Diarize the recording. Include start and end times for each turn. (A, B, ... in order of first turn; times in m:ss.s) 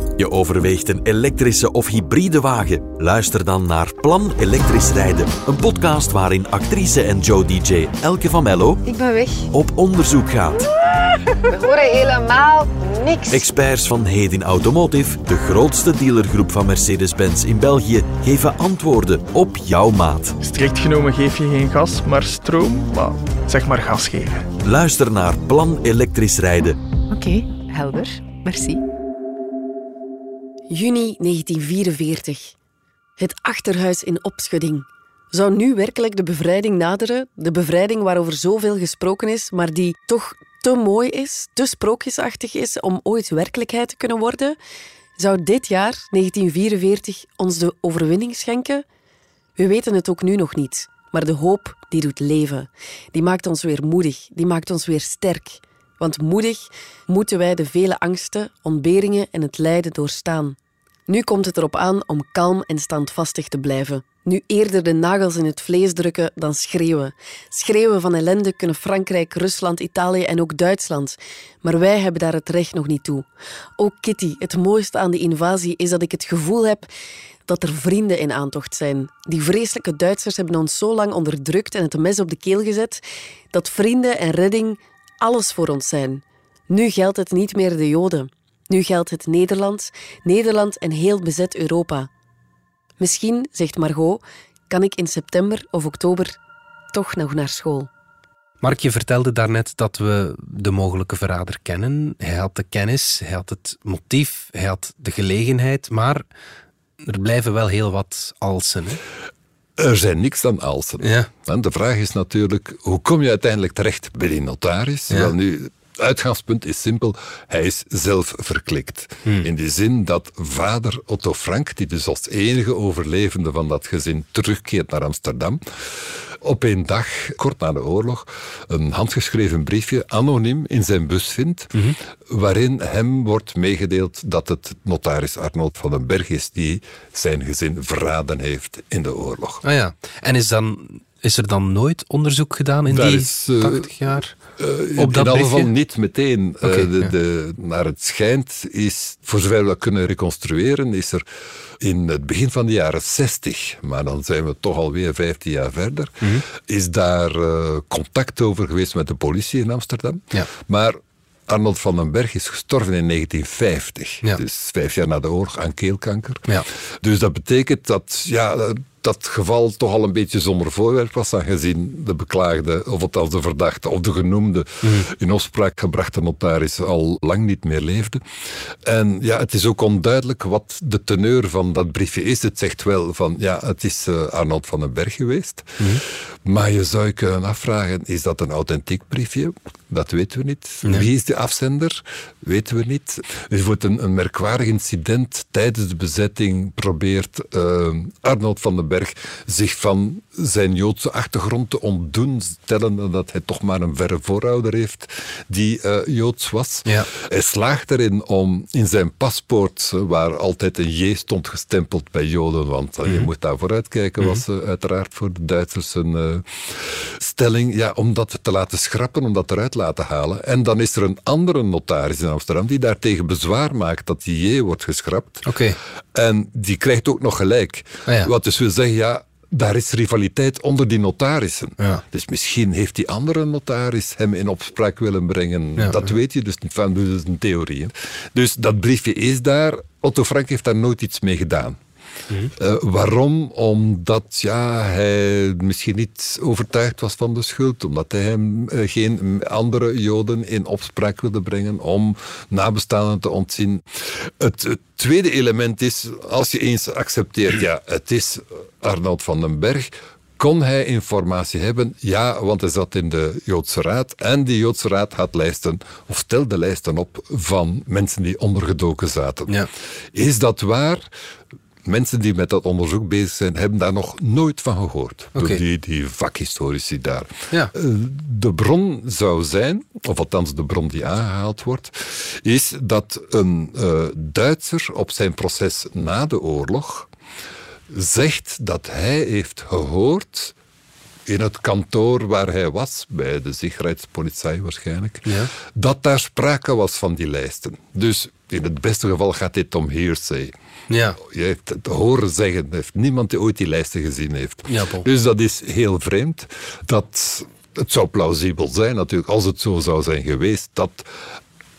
0:00.2-0:08.8 A
0:08.8-0:09.5 B
0:09.5-0:10.7 A
0:11.5-0:13.4 B
0:13.3-0:20.4 A
0:20.4-0:24.4 C
0:24.6-0:26.8 A
0:27.1-0:28.8 B
0:30.7-0:32.5 D
0:33.2-0:44.6 D
0:45.2-0:48.8 D
0:49.6-1:13.3 D
1:13.8-1:16.9 D
1:17.5-1:32.1 D
1:33.0-1:36.4 D
1:36.9-1:37.9 D
1:38.6-1:46.2 E
1:47.0-1:49.0 E
1:49.8-2:11.7 F
1:51.0-1:51.3 E
2:12.3-2:19.6 F
2:19.6-2:24.3 E
2:22.9-2:23.9 F
2:24.6-2:31.2 F
2:25.0-2:25.7 E
2:26.6-2:27.1 E
2:31.8-2:46.5 F
2:47.0-2:58.2 F
2:54.8-2:55.1 E
2:58.8-3:45.5 F
3:45.4-3:45.8 E
3:46.1-4:01.8 F
3:48.0-3:48.3 E
3:55.8-3:56.1 E
4:02.5-4:29.6 F
4:30.1-4:31.1 F
4:31.8-4:47.1 F
4:35.3-4:35.6 E
4:47.9-4:50.5 F
4:51.2-5:00.5 F
4:55.2-4:55.5 E
5:00.9-5:01.2 E
5:01.2-5:11.1 F
5:04.7-5:05.1 E